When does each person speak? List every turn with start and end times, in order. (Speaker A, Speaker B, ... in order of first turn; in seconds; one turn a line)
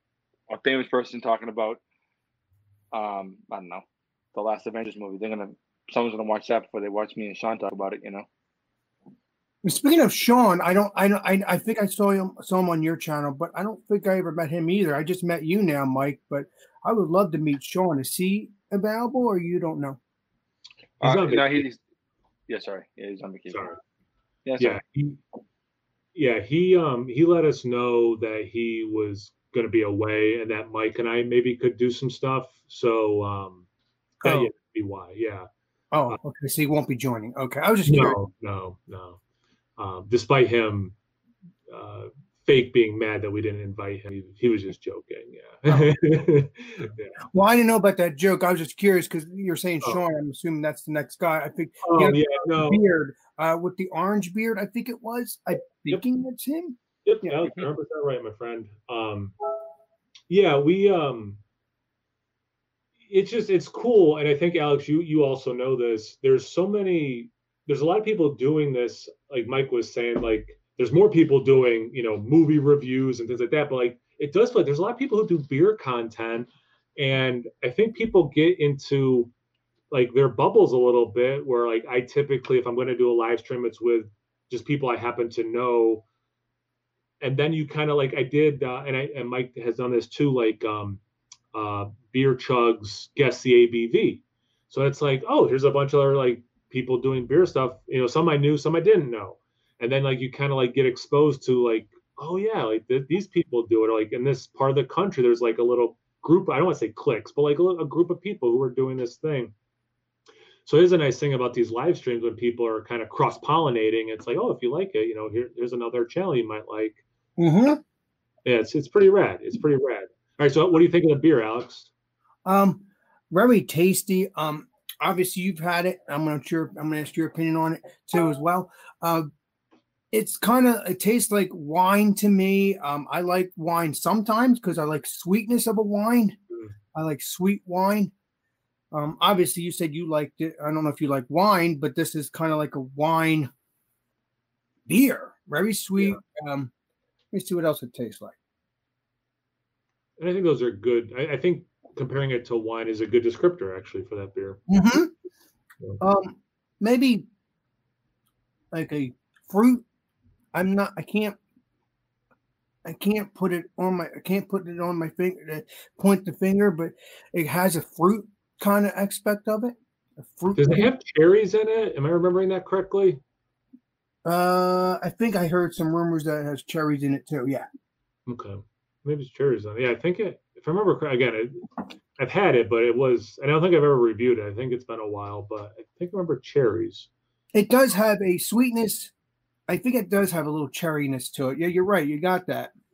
Speaker A: 0.5-1.8
Speaker A: 2.9-8.3
Speaker B: 9.6-20.0
Speaker C: 21.0-21.6
Speaker A: 21.0-21.8
Speaker A: 22.5-23.7
Speaker C: 23.5-23.8
Speaker A: 24.4-24.8
Speaker C: 24.6-25.2
Speaker C: 26.1-33.6
Speaker C: 34.2-35.5
Speaker B: 34.2-34.5
Speaker B: 35.9-38.2
Speaker C: 37.9-39.2
Speaker C: 39.8-40.9
Speaker C: 41.7-47.1
Speaker B: 45.7-45.9
Speaker B: 47.3-56.8
Speaker C: 51.8-52.8
Speaker C: 57.0-59.3
Speaker C: 60.3-61.4
Speaker C: 63.0-79.3
Speaker C: 79.9-86.0
Speaker C: 87.2-91.0
Speaker C: 91.5-109.5
Speaker C: 110.7-117.0
Speaker B: 117.4-117.8
Speaker C: 118.4-121.9
Speaker B: 122.4-129.3
Speaker B: 130.1-136.3
Speaker B: 136.9-138.1
Speaker B: 138.9-143.5
Speaker B: 144.9-146.7
Speaker B: 147.3-148.3
Speaker C: 150.2-154.6
Speaker B: 154.7-155.1
Speaker B: 156.0-157.2
Speaker B: 158.7-159.8
Speaker B: 160.5-161.4
Speaker B: 162.8-170.9
Speaker C: 170.6-173.2
Speaker B: 174.2-177.7
Speaker C: 178.2-181.7
Speaker C: 182.2-187.1
Speaker B: 187.5-189.1
Speaker B: 189.7-192.7